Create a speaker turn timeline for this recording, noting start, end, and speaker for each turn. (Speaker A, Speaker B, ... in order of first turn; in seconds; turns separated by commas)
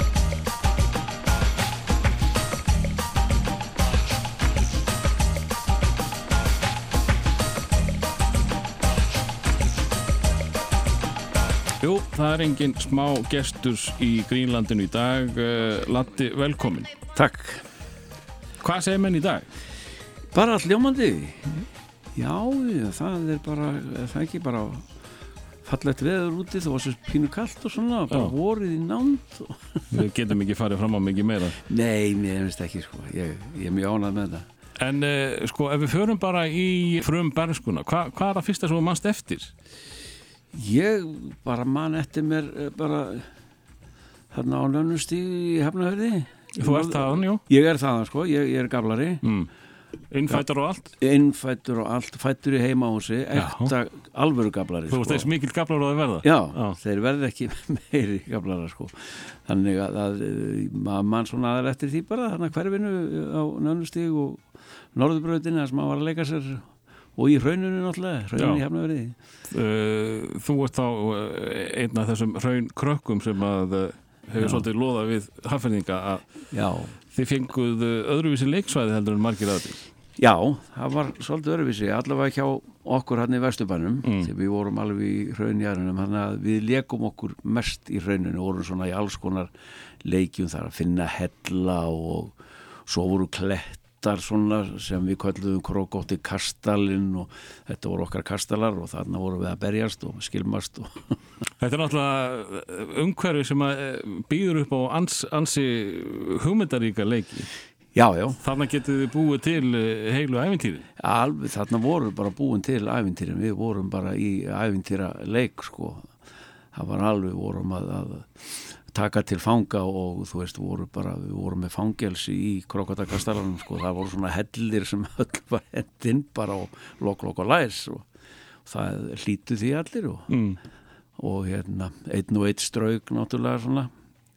Speaker A: 11.8-16.9, Speaker B: 17.1-17.6, Speaker A: 18.6-19.5, Speaker B: 20.3-21.6, Speaker B: 22.1-24.9, Speaker B: 25.6-30.0, Speaker A: 29.9-31.6, Speaker B: 31.6-34.5, Speaker A: 34.8-39.5, Speaker B: 40.5-43.3, Speaker B: 44.3-49.2, Speaker A: 46.6-47.4, Speaker A: 49.2-49.5, Speaker A: 50.1-50.9, Speaker B: 51.0-55.3, Speaker A: 53.4-53.7, Speaker A: 54.9-56.8, Speaker B: 56.2-69.2, Speaker A: 68.4-68.6, Speaker A: 69.5-76.3, Speaker B: 74.4-74.7, Speaker B: 76.5-77.0, Speaker A: 77.1-79.8, Speaker B: 80.2-101.2, Speaker A: 84.0-84.3, Speaker A: 101.6-107.5, Speaker B: 107.9-108.4, Speaker A: 108.4-110.8, Speaker B: 111.0-116.1, Speaker B: 116.7-128.1, Speaker B: 128.7-130.3, Speaker A: 130.3-130.6, Speaker B: 131.2-133.9